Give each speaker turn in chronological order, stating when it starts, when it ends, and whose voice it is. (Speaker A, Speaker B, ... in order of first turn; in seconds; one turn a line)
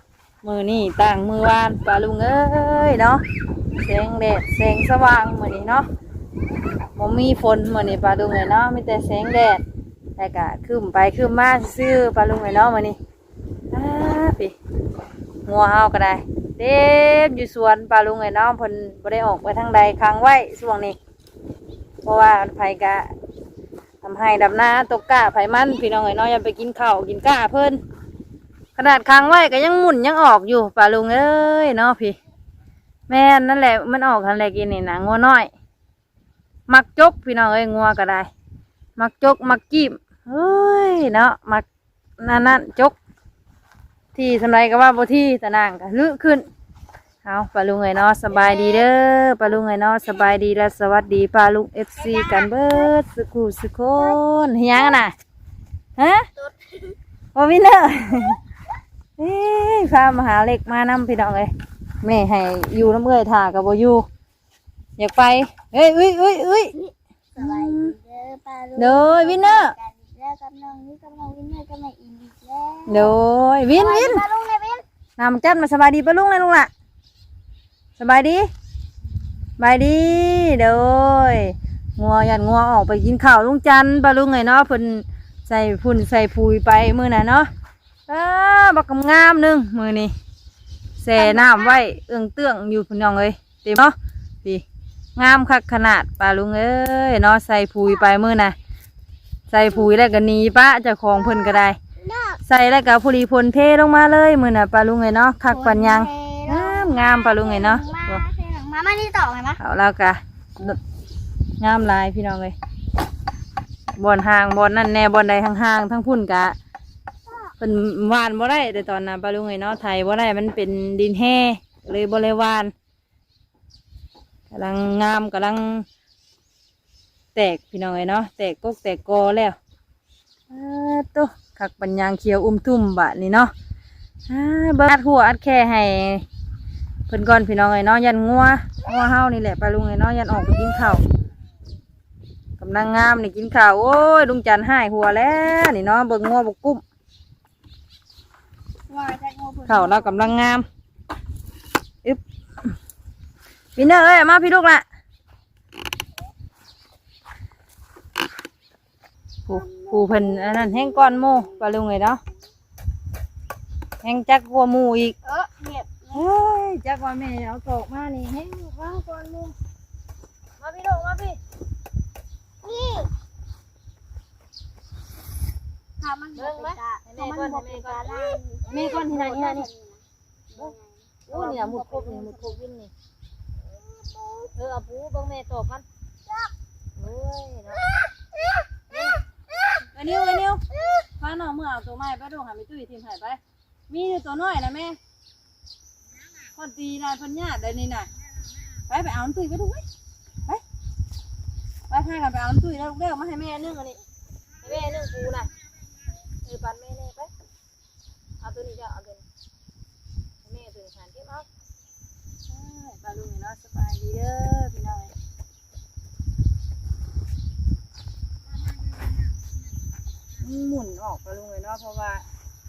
Speaker A: 0.4-3.2
Speaker A: 3.7-5.8
Speaker A: 7.0-9.6
Speaker A: 10.2-13.0
Speaker A: 13.7-14.5
Speaker A: 15.4-20.9
Speaker A: 22.0-23.1
Speaker A: 24.0-27.8
Speaker A: 28.8-32.2
Speaker A: 33.1-35.5
Speaker A: 36.7-38.3
Speaker A: 39.0-41.7
Speaker A: 42.2-43.0
Speaker A: 44.1-46.5
Speaker A: 47.2-55.1
Speaker A: 56.0-56.3
Speaker A: 57.3-58.4
Speaker A: 59.2-61.5
Speaker A: 62.0-64.0
Speaker A: 65.0-66.8
Speaker B: 67.4-73.1
Speaker A: 67.4-67.9
Speaker A: 68.8-69.7
Speaker A: 72.9-74.2
Speaker B: 73.7-74.8
Speaker A: 75.2-76.7
Speaker A: 78.0-78.5
Speaker A: 79.6-87.5
Speaker A: 88.1-90.1
Speaker A: 91.0-94.6
Speaker B: 91.2-91.6
Speaker A: 95.2-98.5
Speaker A: 99.5-101.8
Speaker B: 102.0-102.4
Speaker A: 102.4-108.2
Speaker B: 105.5-109.6
Speaker A: 109.6-110.8
Speaker A: 111.6-112.5
Speaker A: 113.9-116.5
Speaker A: 117.6-122.7
Speaker A: 124.5-125.9
Speaker A: 127.3-129.6
Speaker A: 130.5-133.5
Speaker A: 134.3-136.3
Speaker A: 137.1-141.0
Speaker A: 142.6-146.8
Speaker B: 148.9-150.3
Speaker A: 149.7-150.7
Speaker A: 153.8-154.8
Speaker A: 159.5-162.2
Speaker B: 159.5-160.2
Speaker A: 164.0-165.2
Speaker B: 165.2-166.2
Speaker A: 166.1-169.5
Speaker A: 170.6-171.4
Speaker B: 172.6-173.1
Speaker B: 176.0-182.6
Speaker A: 176.4-179.7
Speaker A: 181.3-182.9
Speaker B: 183.9-184.5
Speaker A: 184.5-185.8
Speaker A: 187.0-187.9
Speaker A: 189.9-190.6
Speaker A: 191.2-195.0
Speaker A: 196.6-198.1
Speaker A: 198.9-199.8
Speaker A: 201.9-204.0
Speaker A: 204.6-205.5
Speaker A: 206.4-207.3
Speaker A: 208.4-209.2
Speaker A: 210.4-211.5
Speaker A: 212.5-215.1
Speaker A: 220.4-222.2